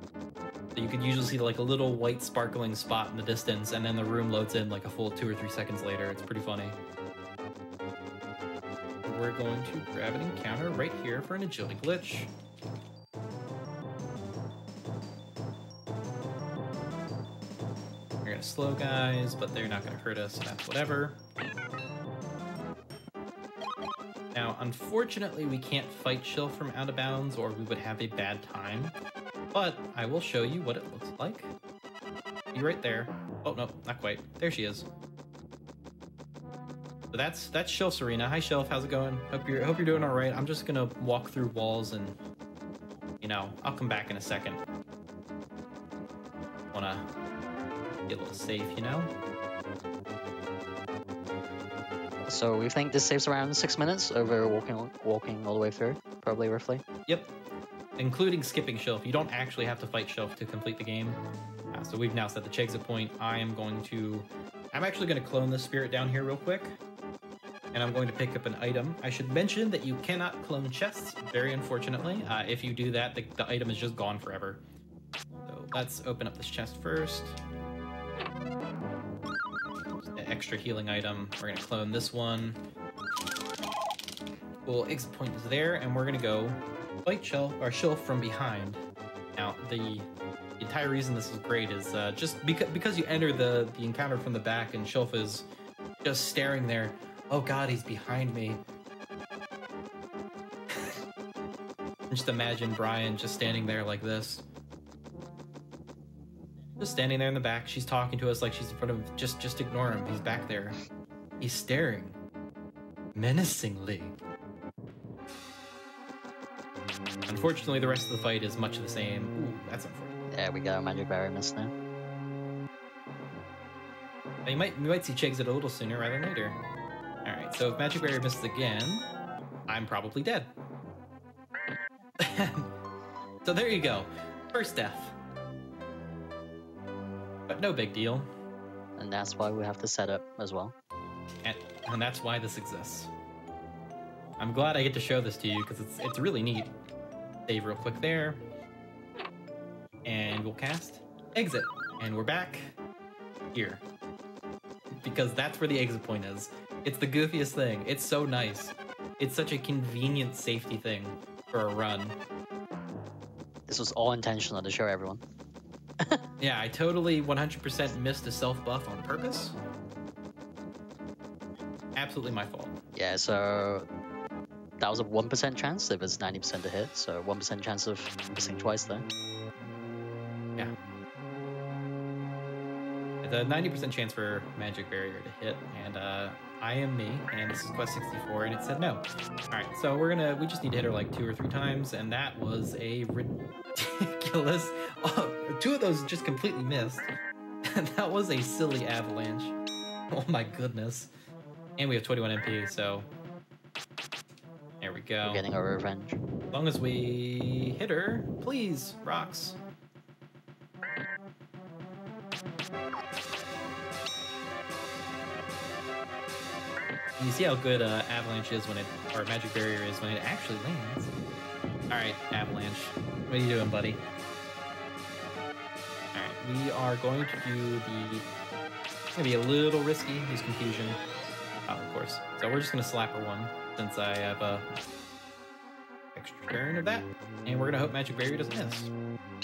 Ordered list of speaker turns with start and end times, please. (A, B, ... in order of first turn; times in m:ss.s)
0:00.7-0:06.8 A
0:09.0-0:12.3 A
0:18.2-0:21.2 A
0:24.3-0:28.9 A
0:29.5-0:31.5 A
0:32.5-0:34.9 A
0:37.1-0:42.2 A
0:43.2-0:44.6 A
0:46.7-0:47.1 A
0:48.1-0:49.1 A
0:52.2-0:56.8 B
0:57.1-0:57.3 A
0:58.0-1:01.2 A
1:01.7-1:06.8 A
1:07.7-1:14.6 A
1:15.4-1:17.4 A
1:20.2-1:22.6 A
1:24.6-1:28.8 A
1:29.4-1:30.1 A
1:30.6-1:35.4 A
1:36.0-1:38.6 A
1:42.1-1:44.4 A
1:46.8-1:50.8 A
1:51.4-1:52.2 A
1:53.1-1:54.2 A
1:57.3-2:00.1 A
2:00.3-2:01.7 B
2:04.4-2:06.6 A
2:07.2-2:09.1 A
2:09.7-2:10.5 A
2:12.2-2:12.7 A
2:13.4-2:15.1 A
2:17.5-2:18.3 A
2:19.0-2:20.7 B
2:21.4-2:23.1 A
2:24.4-2:26.7 A
2:27.5-2:28.4 A
2:30.0-2:32.7 A
2:33.5-2:33.8 A
2:34.9-2:42.2 A
2:43.7-2:45.2 B
2:46.4-2:49.6 A
2:52.0-2:52.8 A
2:52.9-2:53.9 B
2:54.8-2:59.1 B
3:03.2-3:17.1 A
3:17.6-3:19.5 A
3:20.1-3:21.1 A
3:21.8-3:23.1 A
3:24.8-3:25.4 A
3:25.2-3:26.2 B
3:26.5-3:29.6 A
3:37.2-3:41.1 A
3:41.9-3:44.0 A
3:46.1-3:48.3 A
3:49.1-3:51.0 A
3:51.7-3:54.7 A
3:56.1-3:58.9 A